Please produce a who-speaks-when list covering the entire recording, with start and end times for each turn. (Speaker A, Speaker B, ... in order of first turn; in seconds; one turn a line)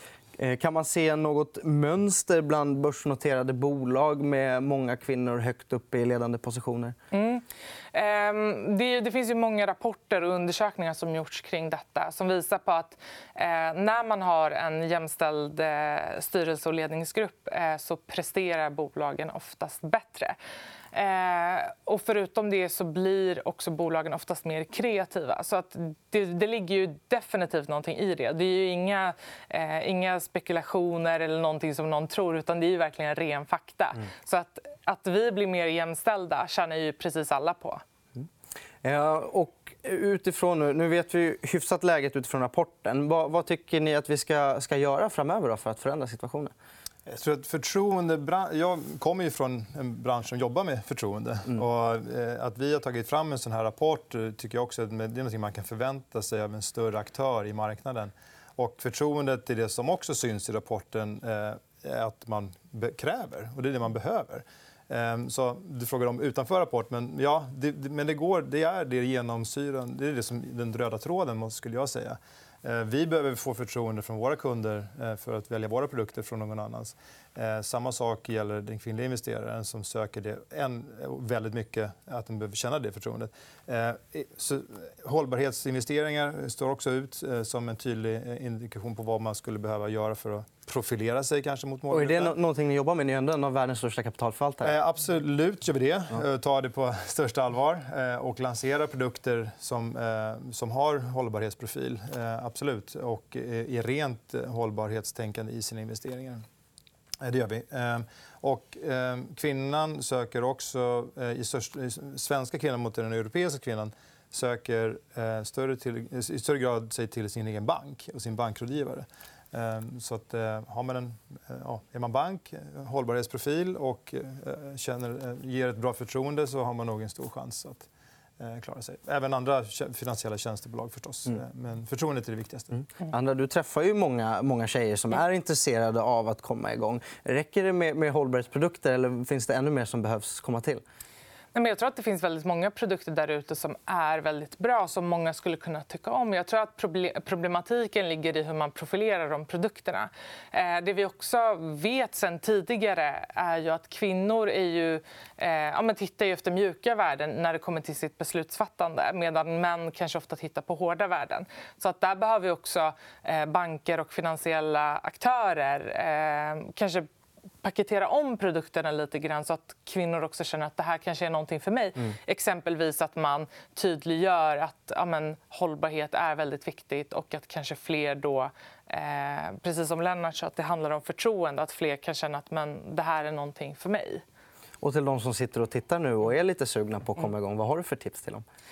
Speaker A: 0.4-7.0
Speaker B: 7.1-20.4
Speaker B: 20.9-37.8
Speaker A: 38.8-46.5
Speaker C: 47.1-92.4
Speaker A: 91.9-94.7
Speaker C: 94.6-106.4
Speaker C: 107.2-127.9
Speaker C: 128.4-132.8
Speaker A: 133.1-140.8
Speaker B: 141.5-167.1
Speaker B: 167.6-184.2
Speaker A: 184.8-188.4